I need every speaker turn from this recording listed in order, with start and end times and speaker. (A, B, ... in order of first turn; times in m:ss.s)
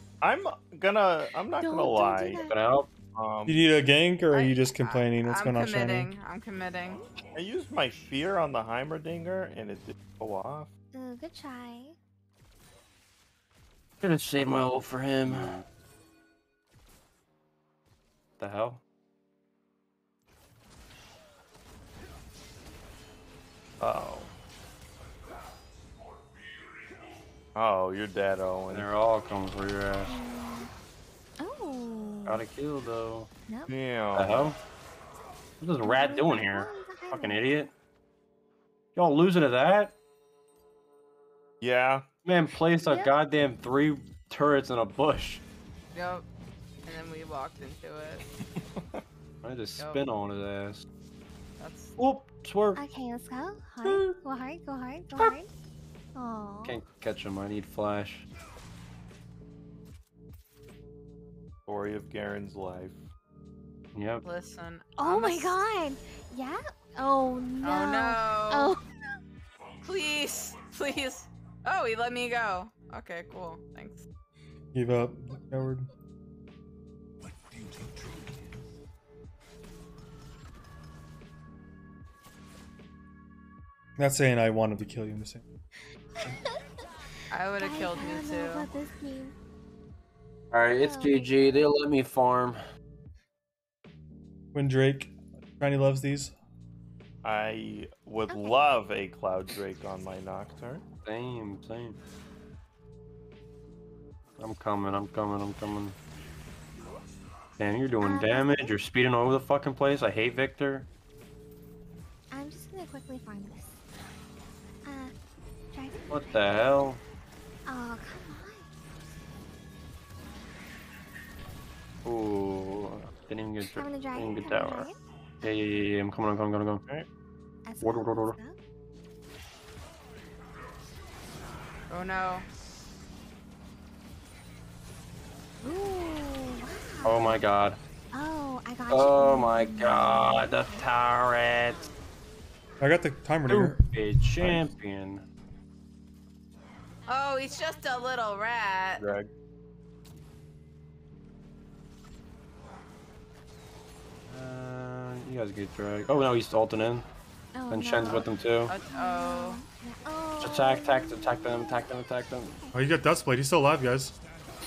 0:00.2-0:02.4 A
0:01.6-0:02.6 B
0:02.4-0:02.9 C
0:03.2-0:03.7 A
0:03.5-0:06.1 D
0:04.3-0:07.1 E
0:07.3-0:10.7 A
0:10.9-0:12.0 B
0:14.0-0:15.6 C
0:18.4-0:18.8 C
0:23.8-0:24.3 A
0:27.6-0:28.9 A
0:28.7-0:30.2 C
0:30.1-0:30.7 B
0:31.4-0:32.4 B
0:32.3-0:33.3 C
0:33.7-0:34.5 A
0:34.2-0:34.6 C
0:35.6-0:37.7 C
0:35.8-0:37.4 B
0:39.0-0:40.0 C
0:41.6-0:42.1 A
0:42.2-0:45.4 C
0:42.8-0:43.1 B
0:45.9-0:46.3 E
0:46.9-0:48.2 E
0:49.4-0:50.9 C
0:49.8-0:50.0 E
0:51.6-0:52.0 E
0:52.0-0:52.8 C
0:52.8-0:55.5 B
0:56.1-0:56.8 B
0:56.6-0:58.3 C
1:01.7-1:03.1 A
1:03.9-1:04.2 C
1:04.2-1:05.6 E
1:05.0-1:09.2 B
1:07.6-1:08.8 E
1:09.8-1:14.0 E
1:14.7-1:15.9 D
1:24.0-1:25.4 D
1:26.2-1:26.6 B
1:27.3-1:28.7 E
1:27.6-1:29.4 B
1:30.5-1:32.6 C
1:30.7-1:31.5 B
1:34.5-1:36.3 D
1:37.2-1:40.8 A
1:38.3-1:38.7 B
1:41.0-1:42.0 C
1:44.4-1:46.0 C
1:47.6-1:50.9 C
1:48.0-1:48.8 B
1:52.3-1:53.8 B
1:54.8-1:55.1 B
1:55.7-1:56.9 B
1:56.1-1:57.0 C
1:57.7-1:58.7 B
2:02.0-2:04.9 C
2:03.6-2:05.6 B
2:05.4-2:06.8 C
2:07.7-2:08.6 B
2:07.8-2:08.4 C
2:11.9-2:12.5 E
2:15.6-2:17.5 B
2:17.0-2:17.8 C
2:18.1-2:20.9 B
2:18.9-2:21.9 C
2:22.8-2:23.8 D
2:23.5-2:25.2 C
2:27.1-2:29.0 E
2:29.0-2:29.3 A
2:34.3-2:37.0 C
2:37.5-2:41.9 B
2:37.7-2:38.7 C
2:38.7-2:39.6 E
2:40.4-2:42.6 C
2:42.7-2:44.2 D